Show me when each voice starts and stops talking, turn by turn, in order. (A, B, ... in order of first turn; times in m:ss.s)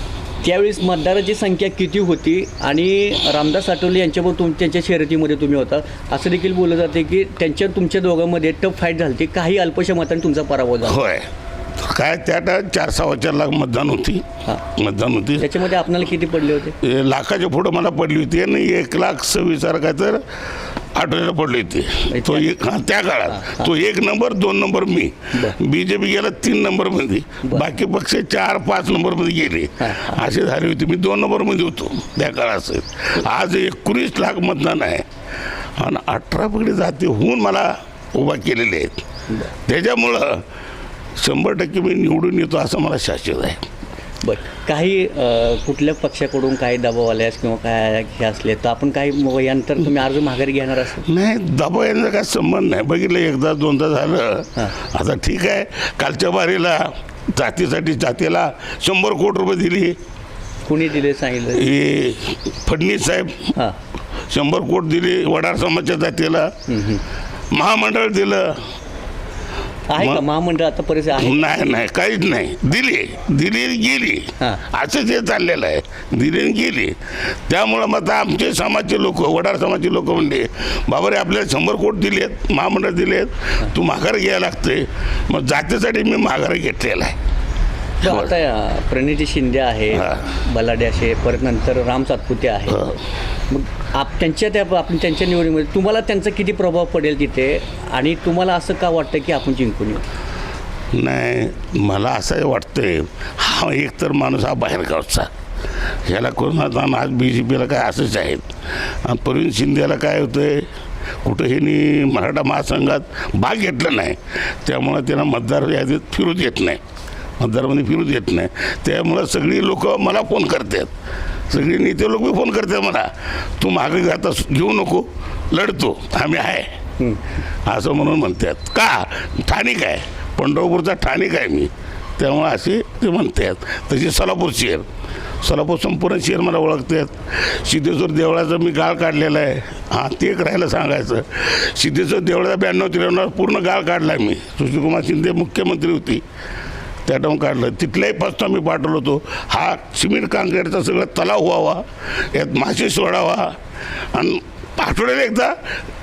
0:00.4-0:11.0 A
0:10.8-0:15.5 B
0:15.4-0:16.8 A
0:16.8-0:20.2 B
0:20.9-0:35.0 B
0:22.1-0:22.5 A
0:23.3-0:23.7 A
0:29.8-0:30.2 A
0:35.8-0:39.0 B
0:39.6-0:40.4 B
0:41.2-0:43.6 B
0:44.2-0:51.0 A
0:51.0-1:00.0 B
1:00.6-1:01.7 A
1:01.5-1:03.5 B
1:04.3-1:06.5 B
1:06.7-1:07.0 A
1:07.5-1:08.7 B
1:09.9-1:11.4 A
1:10.0-1:10.2 B
1:11.2-1:27.2 B
1:28.0-1:32.8 A
1:28.0-1:28.3 B
1:29.9-1:30.3 B
1:32.7-1:33.0 B
1:33.5-1:40.0 A
1:40.9-1:45.3 B
1:46.1-1:48.5 B
1:49.0-1:50.7 B
1:51.2-1:56.8 B
1:57.4-2:00.9 B
2:01.5-2:06.7 B
2:07.7-2:14.8 B
2:15.4-2:26.2 B
2:27.0-2:33.6 B
2:34.1-2:35.6 B